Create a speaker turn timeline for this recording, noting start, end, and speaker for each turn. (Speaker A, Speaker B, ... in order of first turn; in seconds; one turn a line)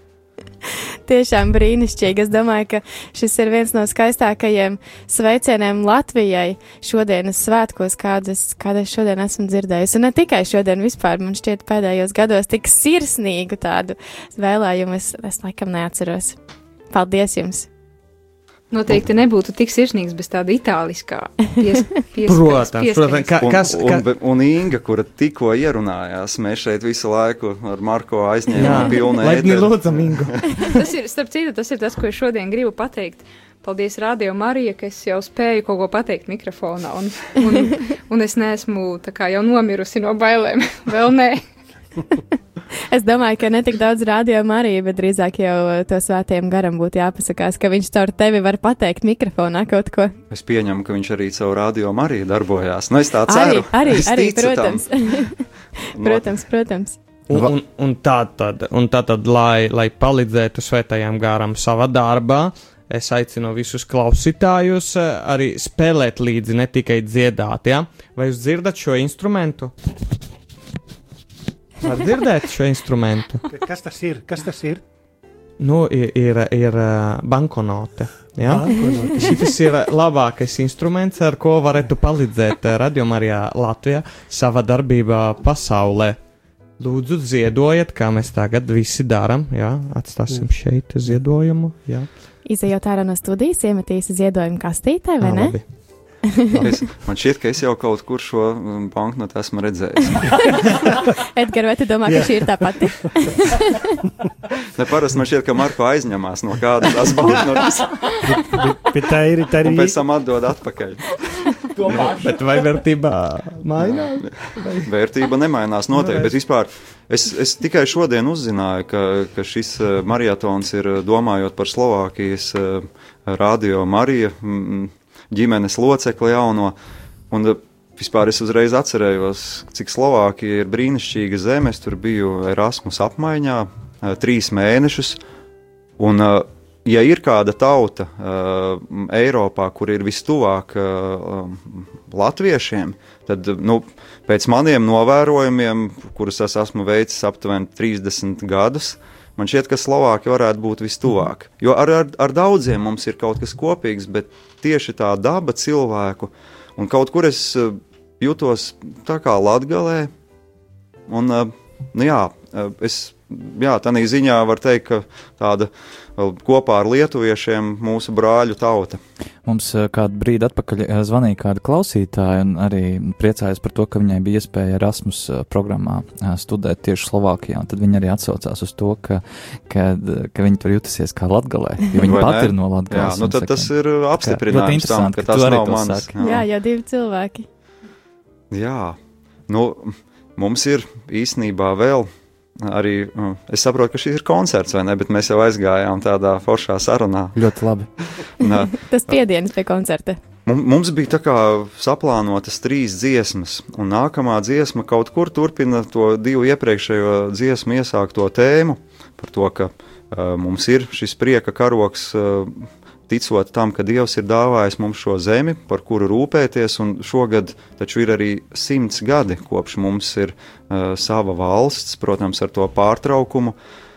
Speaker A: 1.1-16.4
Speaker A: 16.9-17.7
Speaker B: 18.7-23.4
Speaker C: 22.2-24.1
Speaker D: 23.4-30.4
Speaker C: 28.5-30.5
Speaker B: 28.6-29.1
Speaker B: 30.6-41.4
Speaker A: 42.9-50.1
Speaker D: 50.3-55.3
Speaker A: 53.3-55.4
Speaker D: 55.9-56.4
Speaker A: 56.0-57.0
Speaker C: 57.3-69.7
Speaker C: 71.8-73.4
Speaker E: 73.5-74.8
Speaker C: 75.6-92.1
Speaker E: 78.4-79.6
Speaker A: 92.4-96.4
Speaker C: 95.2-96.7
Speaker D: 96.6-100.2
Speaker A: 101.3-103.5
Speaker E: 102.0-103.1
Speaker D: 104.8-108.0
Speaker E: 108.2-110.0
Speaker D: 109.6-111.0
Speaker C: 111.9-114.9
Speaker D: 113.8-126.7
Speaker C: 115.9-116.3
Speaker D: 127.3-135.2
Speaker D: 136.0-160.1
Speaker D: 161.1-169.0
Speaker F: 169.4-186.2
Speaker D: 182.0-186.4
Speaker A: 186.2-187.4
Speaker D: 188.5-189.0
Speaker D: 189.5-192.1
Speaker D: 192.6-197.4
Speaker F: 197.3-197.9
Speaker D: 198.4-198.8
Speaker A: 198.7-200.2
Speaker D: 200.4-223.5